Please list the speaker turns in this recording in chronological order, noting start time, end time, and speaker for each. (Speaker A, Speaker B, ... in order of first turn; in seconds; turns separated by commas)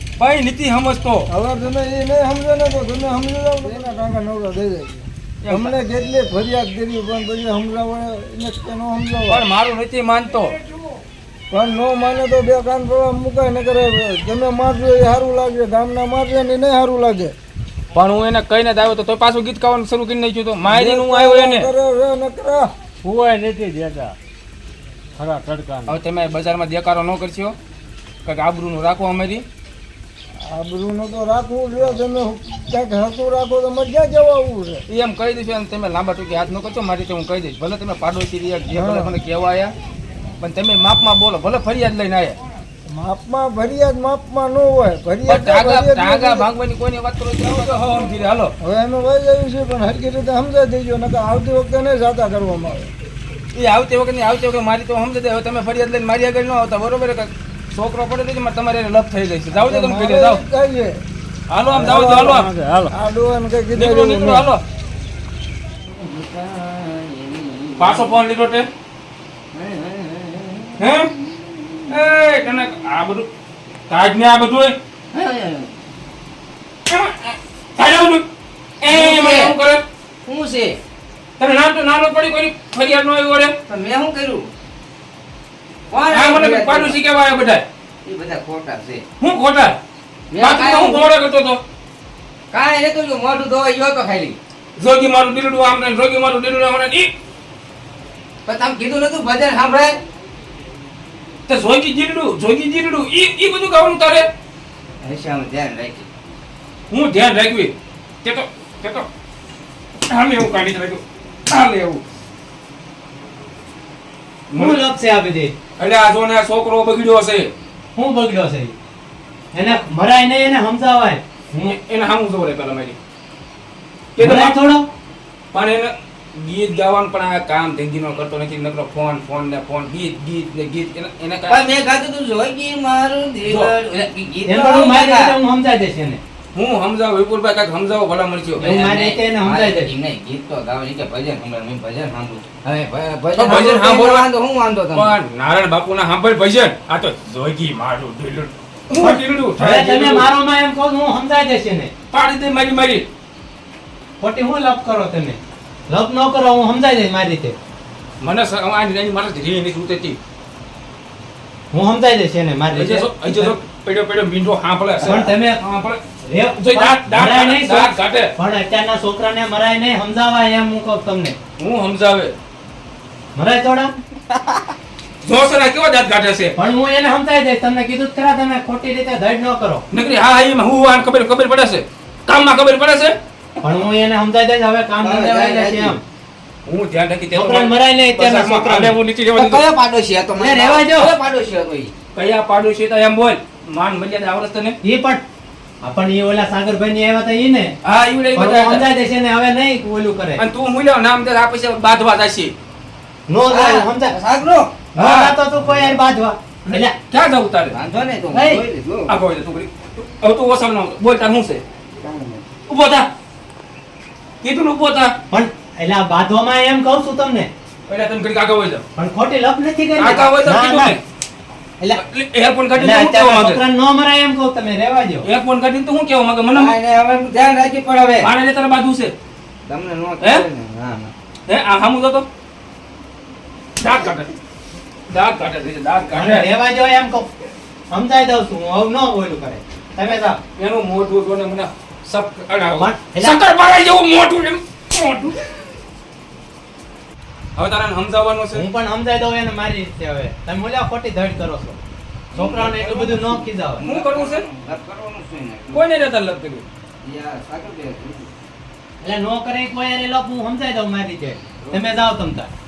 Speaker A: 0.2-1.3, Speaker B: 1.3-9.4, Speaker A: 5.4-5.8, Speaker A: 9.3-10.6, Speaker B: 11.5-17.4, Speaker A: 17.9-21.7, Speaker B: 20.7-22.7, Speaker C: 23.0-24.2, Speaker C: 25.2-25.9, Speaker A: 25.9-27.5, Speaker A: 28.2-29.4, Speaker B: 30.4-34.8, Speaker A: 34.9-39.7, Speaker B: 38.7-39.1, Speaker A: 40.4-42.4, Speaker B: 42.9-46.4, Speaker A: 45.2-48.5, Speaker B: 47.5-48.0, Speaker B: 48.6-52.9, Speaker A: 53.5-60.4, Speaker B: 59.5-61.0, Speaker A: 61.5-62.5, Speaker B: 61.7-64.5, Speaker C: 62.4-62.9, Speaker A: 63.7-64.6, Speaker D: 65.8-68.1, Speaker A: 67.8-68.7, Speaker D: 69.5-71.8, Speaker A: 70.8-71.1, Speaker A: 71.9-73.3, Speaker A: 73.9-74.8, Speaker D: 75.1-75.7, Speaker A: 76.9-78.2, Speaker A: 78.8-79.8, Speaker D: 78.8-79.5, Speaker D: 80.2-80.8, Speaker A: 81.4-83.5, Speaker D: 83.7-84.5, Speaker D: 85.9-87.0, Speaker A: 86.1-87.7, Speaker D: 88.0-89.0, Speaker A: 89.2-89.8, Speaker D: 90.3-91.1, Speaker A: 90.4-91.6, Speaker D: 92.5-94.4, Speaker A: 94.8-97.1, Speaker D: 98.5-100.0, Speaker A: 101.5-104.3, Speaker D: 105.0-106.1, Speaker A: 106.9-109.1, Speaker A: 110.1-112.0, Speaker A: 114.5-114.8, Speaker E: 114.5-115.5, Speaker A: 115.8-117.5, Speaker E: 118.0-118.7, Speaker E: 119.5-121.8, Speaker A: 121.6-123.0, Speaker A: 124.2-124.6, Speaker E: 124.2-124.9, Speaker A: 125.5-131.6, Speaker D: 131.5-135.3, Speaker A: 133.4-133.7, Speaker E: 134.4-136.2, Speaker A: 136.5-138.7, Speaker E: 138.6-139.9, Speaker D: 138.6-145.1, Speaker A: 143.3-144.2, Speaker A: 144.9-150.3, Speaker E: 149.0-151.9, Speaker A: 152.1-153.1, Speaker E: 154.2-157.6, Speaker A: 158.2-160.2, Speaker E: 161.7-163.5, Speaker A: 162.7-166.0, Speaker E: 165.0-165.6, Speaker E: 166.2-171.3, Speaker A: 166.6-168.3, Speaker A: 171.6-172.3, Speaker E: 173.3-173.9, Speaker D: 174.3-174.6, Speaker A: 175.2-176.5, Speaker E: 176.6-179.8, Speaker A: 179.9-183.1, Speaker E: 183.6-186.0, Speaker D: 185.0-186.0, Speaker A: 186.7-189.6, Speaker E: 187.3-189.0, Speaker D: 189.3-191.9, Speaker E: 190.3-191.1, Speaker A: 192.1-194.8, Speaker E: 194.8-195.2, Speaker E: 195.8-197.7, Speaker A: 197.8-198.8, Speaker E: 198.3-200.4, Speaker A: 200.4-202.5, Speaker E: 203.3-204.1, Speaker D: 203.5-204.7, Speaker E: 204.9-206.9, Speaker A: 205.0-205.4, Speaker A: 206.7-207.8, Speaker D: 207.7-209.1, Speaker E: 208.3-208.6, Speaker A: 209.1-211.6, Speaker D: 212.0-212.4, Speaker A: 212.7-213.1, Speaker A: 214.4-215.1, Speaker E: 215.3-217.5, Speaker A: 217.9-218.8, Speaker E: 218.9-220.9, Speaker A: 220.0-221.0, Speaker A: 221.9-223.6, Speaker E: 222.7-225.2, Speaker A: 225.2-226.7, Speaker D: 226.5-228.3, Speaker A: 228.2-229.1, Speaker D: 229.7-231.1, Speaker A: 231.5-232.2, Speaker A: 233.8-234.3, Speaker A: 235.1-236.5, Speaker E: 236.1-237.3, Speaker E: 237.9-240.4, Speaker A: 240.6-245.4, Speaker E: 242.8-243.4, Speaker A: 247.6-248.7, Speaker E: 248.5-251.8, Speaker D: 252.3-255.8, Speaker E: 252.3-253.8, Speaker A: 253.8-254.4, Speaker A: 255.7-256.6, Speaker D: 257.0-258.3, Speaker E: 259.0-262.5